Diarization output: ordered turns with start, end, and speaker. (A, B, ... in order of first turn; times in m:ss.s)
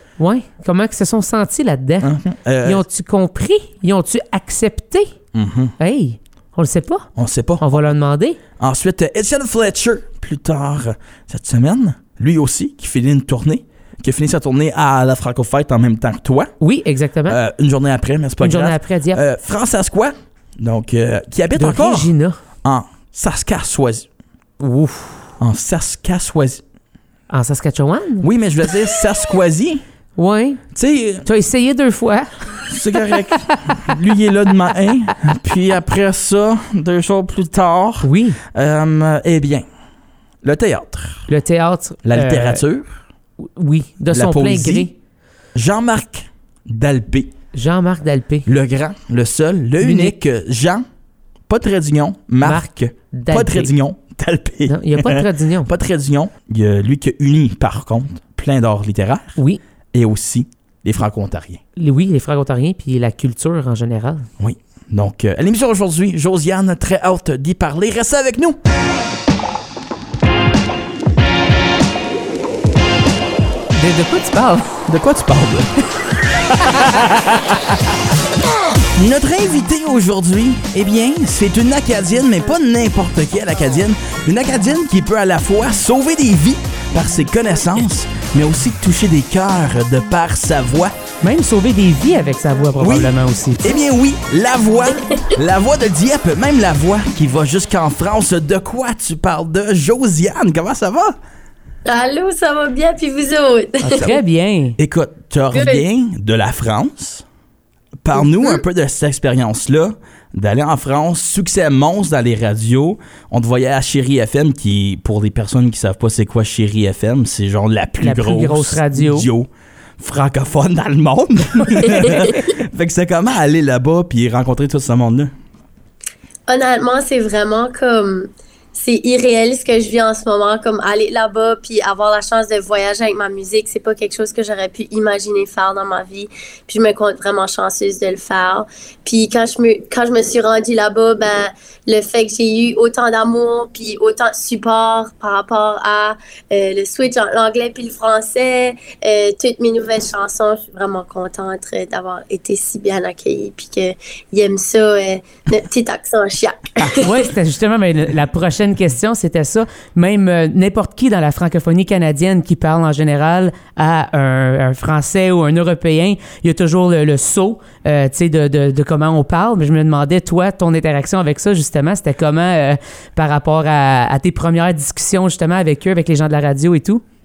0:00.2-0:05.1 A
0:02.0-0:02.8 B
0:05.3-0:05.7 B
0:05.8-0:07.1 A
0:07.2-0:07.9 B
0:07.6-0:08.4 A
0:08.6-0:16.5 B
0:16.6-0:17.4 A
0:17.3-0:22.1 B
0:18.4-0:19.2 A
0:21.6-0:22.4 A
0:22.6-0:24.1 B
0:24.6-0:25.3 A
0:25.4-0:26.6 B
0:27.3-0:28.8 A
0:28.2-0:29.8 B
0:30.2-0:30.6 A
0:30.7-0:31.2 B
0:31.2-0:34.0 A
0:32.7-0:39.6 B
0:38.0-0:38.4 A
0:40.4-0:41.3 B
0:41.3-0:42.6 A
0:42.0-0:43.0 B
0:43.4-0:44.9 A
0:44.1-0:44.9 B
0:45.5-0:47.3 B
0:47.5-0:48.5 A
0:48.4-0:50.8 B
0:49.8-0:50.1 A
0:51.5-0:59.4 B
0:52.4-0:53.7 A
0:54.6-0:55.7 A
0:59.9-1:01.6 B
1:01.8-1:04.3 A
1:04.4-1:08.6 B
1:13.7-1:14.8 A
1:14.9-1:15.7 B
1:16.5-1:17.6 B
1:19.0-1:30.9 B
1:31.2-1:33.8 A
1:32.8-1:41.2 B
1:41.8-1:44.1 C
1:43.8-1:44.8 A
1:43.9-1:44.2 B
1:44.8-1:47.2 B
1:45.5-1:45.8 C
1:48.0-2:05.3 B
1:58.0-1:59.3 A
2:02.0-2:02.3 C
2:06.5-2:37.1 C
2:37.0-2:57.0 A